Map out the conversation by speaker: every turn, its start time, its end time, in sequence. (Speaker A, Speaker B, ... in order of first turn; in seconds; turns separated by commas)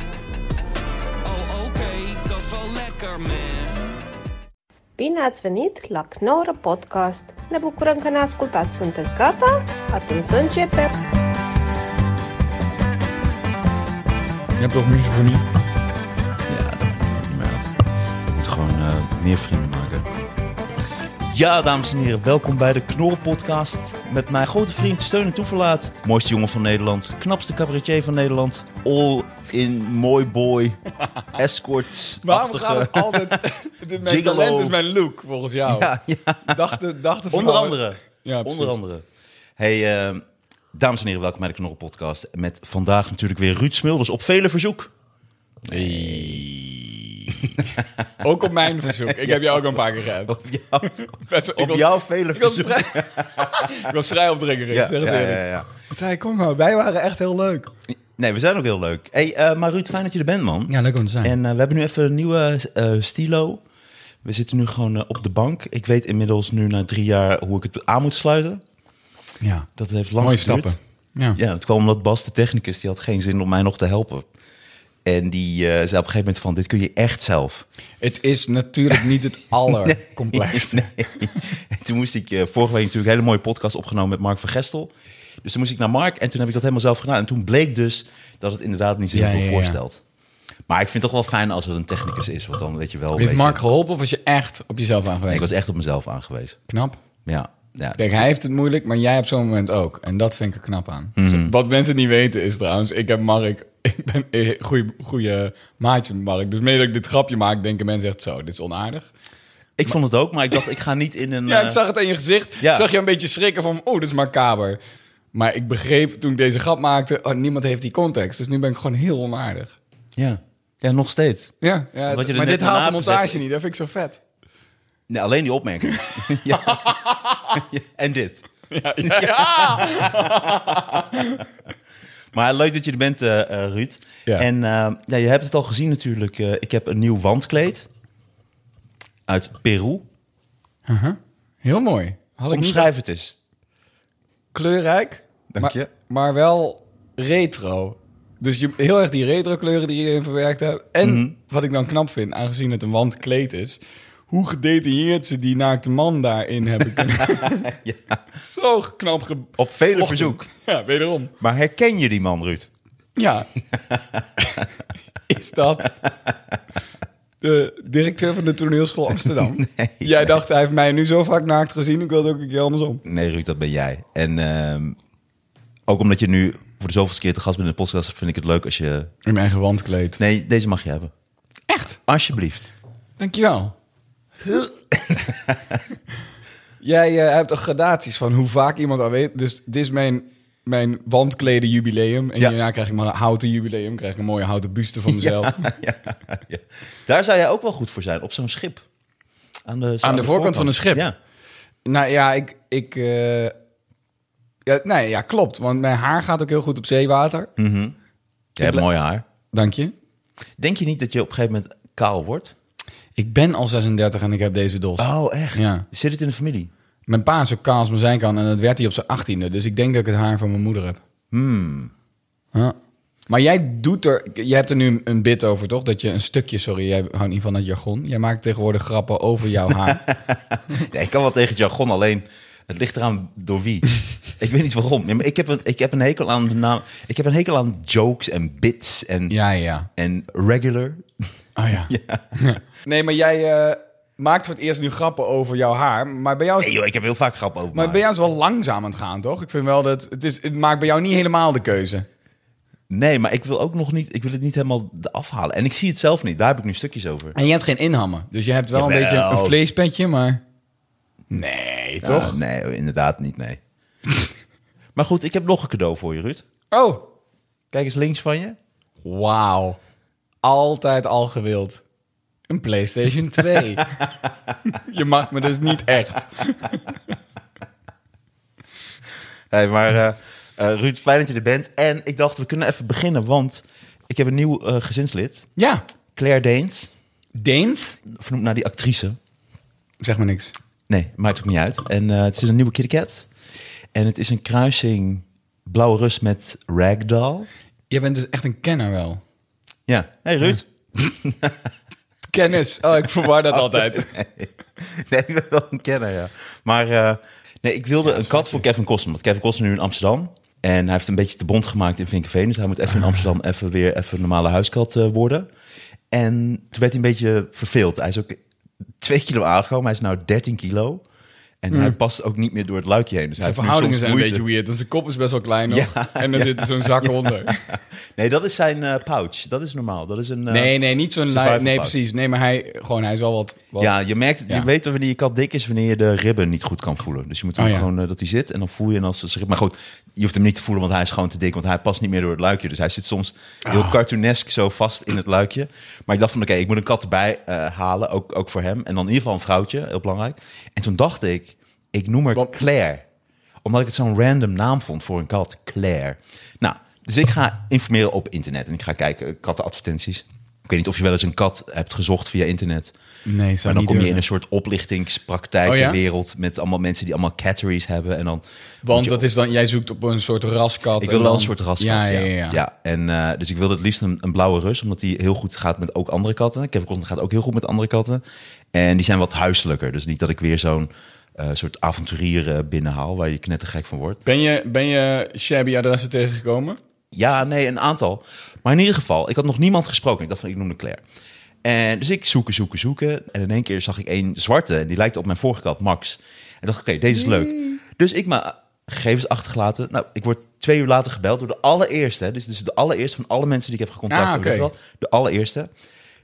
Speaker A: 1.2-4.0, Speaker B: 5.0-10.9, Speaker C: 14.6-15.4, Speaker D: 16.5-17.7, Speaker D: 18.3-20.1, Speaker D: 21.2-30.8, Speaker D: 31.3-33.4, Speaker C: 32.2-35.9, Speaker D: 34.0-34.8, Speaker D: 35.6-36.8, Speaker C: 36.5-38.8, Speaker D: 37.3-39.0, Speaker D: 39.6-44.9, Speaker D: 45.6-46.4, Speaker C: 45.7-47.5, Speaker D: 47.4-48.1, Speaker C: 48.2-57.7, Speaker D: 49.0-54.0, Speaker D: 54.7-55.7, Speaker D: 58.1-63.6, Speaker C: 60.7-61.3, Speaker D: 64.2-68.6, Speaker C: 69.4-69.7, Speaker D: 69.8-70.8, Speaker C: 70.2-71.4, Speaker D: 71.3-74.3, Speaker D: 75.0-77.6, Speaker C: 78.0-80.9, Speaker D: 79.7-90.0, Speaker C: 89.1-89.8, Speaker D: 90.7-93.6, Speaker C: 93.1-95.5, Speaker D: 95.3-96.6, Speaker C: 96.7-97.0, Speaker D: 97.2-98.0, Speaker C: 98.0-109.1, Speaker D: 101.2-101.5, Speaker D: 109.8-111.8, Speaker C: 111.5-114.8, Speaker D: 112.6-112.8, Speaker C: 115.3-119.8, Speaker D: 120.2-123.4, Speaker C: 121.6-124.2, Speaker D: 125.1-126.9, Speaker C: 126.2-127.6, Speaker D: 127.5-128.4, Speaker C: 128.7-131.4, Speaker D: 129.0-131.0, Speaker D: 132.3-137.9, Speaker D: 139.3-140.1, Speaker C: 140.9-142.9, Speaker D: 142.5-143.3, Speaker C: 144.5-157.6, Speaker D: 145.5-145.9, Speaker D: 151.0-151.3, Speaker D: 157.0-158.0, Speaker C: 158.4-161.3, Speaker D: 159.6-160.5, Speaker D: 161.4-162.7, Speaker C: 163.2-163.5, Speaker D: 163.7-164.7, Speaker C: 165.3-165.9, Speaker D: 166.0-166.3, Speaker C: 167.4-173.0, Speaker D: 169.4-170.3, Speaker D: 173.0-175.0, Speaker D: 175.9-179.1, Speaker C: 179.2-180.2, Speaker D: 180.2-181.1, Speaker C: 181.7-182.0, Speaker D: 182.1-182.7, Speaker C: 183.2-183.7, Speaker D: 184.4-185.8, Speaker C: 186.8-195.7, Speaker D: 195.1-198.8, Speaker D: 199.6-201.2, Speaker C: 200.0-201.1, Speaker C: 201.8-203.5, Speaker C: 204.7-207.5, Speaker D: 207.6-207.9, Speaker D: 208.6-209.2, Speaker C: 209.5-209.9, Speaker D: 210.6-212.5, Speaker C: 213.2-215.8, Speaker D: 215.0-216.7, Speaker C: 217.1-221.0, Speaker D: 221.3-221.9, Speaker C: 223.3-230.0, Speaker D: 229.9-239.3, Speaker C: 239.3-239.9, Speaker D: 239.9-241.1, Speaker C: 241.6-246.7, Speaker D: 241.9-242.2, Speaker D: 246.6-248.0, Speaker C: 247.7-252.1, Speaker D: 252.9-257.3, Speaker C: 257.3-260.4, Speaker D: 258.7-259.6, Speaker C: 261.3-262.4, Speaker D: 262.0-263.6, Speaker D: 264.9-266.4, Speaker C: 266.7-267.1, Speaker D: 267.7-268.6, Speaker C: 269.0-269.8, Speaker C: 270.4-271.8, Speaker C: 272.5-273.9, Speaker C: 274.7-277.0, Speaker D: 279.5-285.5, Speaker C: 285.6-285.8, Speaker D: 286.1-286.9, Speaker C: 287.4-288.0, Speaker D: 288.0-289.2, Speaker C: 290.0-290.5, Speaker D: 290.9-293.3, Speaker D: 293.9-297.5, Speaker C: 297.9-299.2, Speaker D: 299.9-301.7, Speaker C: 302.3-304.1, Speaker D: 303.5-315.5, Speaker C: 308.0-308.6, Speaker D: 316.1-318.4, Speaker D: 319.0-321.0, Speaker D: 321.6-324.4, Speaker C: 321.7-321.9, Speaker C: 323.4-327.6, Speaker D: 325.7-330.7, Speaker C: 330.5-333.9, Speaker D: 331.3-332.0, Speaker D: 333.8-353.1, Speaker C: 337.6-337.9, Speaker C: 343.6-343.9, Speaker D: 353.6-362.9, Speaker C: 363.2-364.2, Speaker D: 363.6-369.2, Speaker C: 365.6-366.0, Speaker C: 368.8-372.6, Speaker D: 371.0-378.2, Speaker D: 378.7-384.2, Speaker C: 384.2-386.8, Speaker D: 387.1-391.0, Speaker D: 391.6-405.7, Speaker C: 397.1-397.8, Speaker C: 404.1-404.7